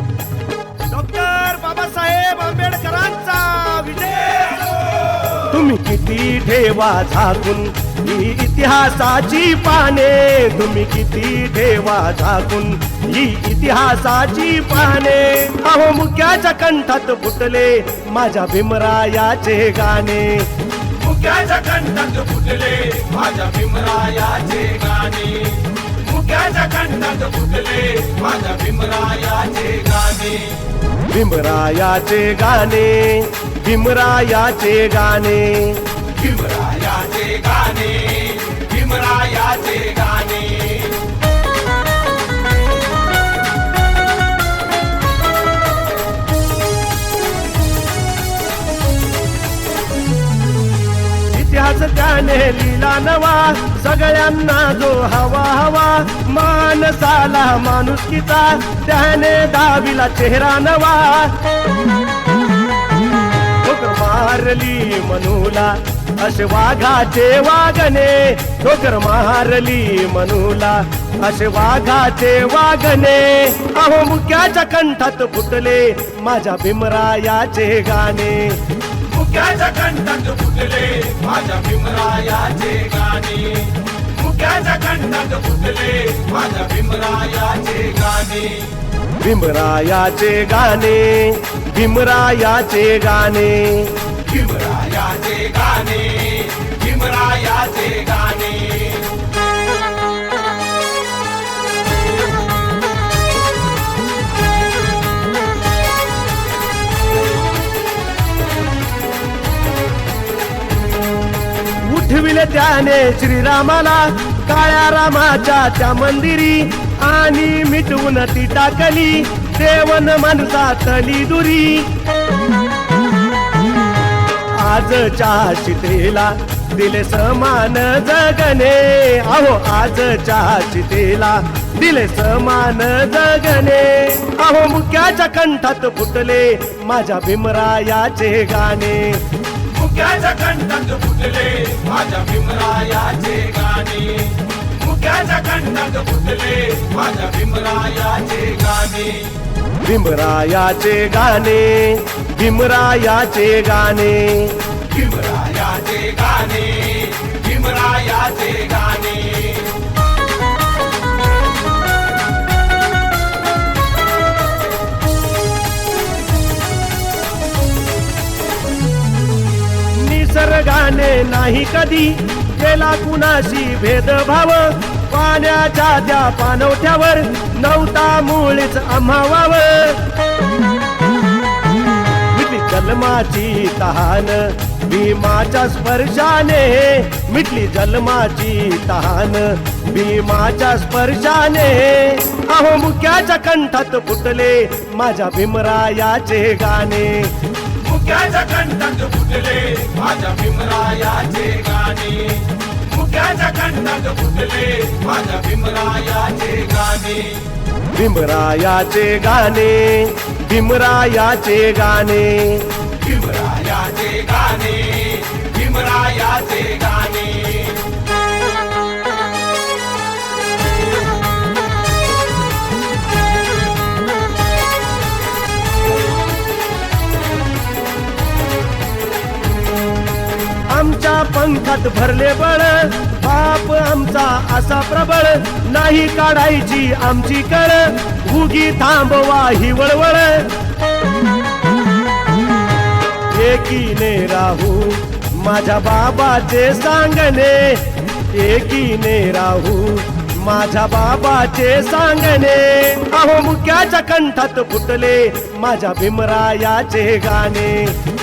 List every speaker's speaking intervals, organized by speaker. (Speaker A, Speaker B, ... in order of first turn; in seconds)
Speaker A: 0.8-20.6, 31.1-36.0, 51.3-61.5, 63.6-78.7, 89.1-94.2, 111.8-122.0, 124.5-139.3, 149.8-154.8, 169.9-180.2, 182.3-197.4, 207.9-212.9, 230.7-240.6, 243.3-258.1
Speaker B: 20.9-30.7, 36.1-41.0, 79.0-88.8, 94.2-99.1, 139.6-149.4, 154.9-159.8, 197.7-207.6, 213.0-217.8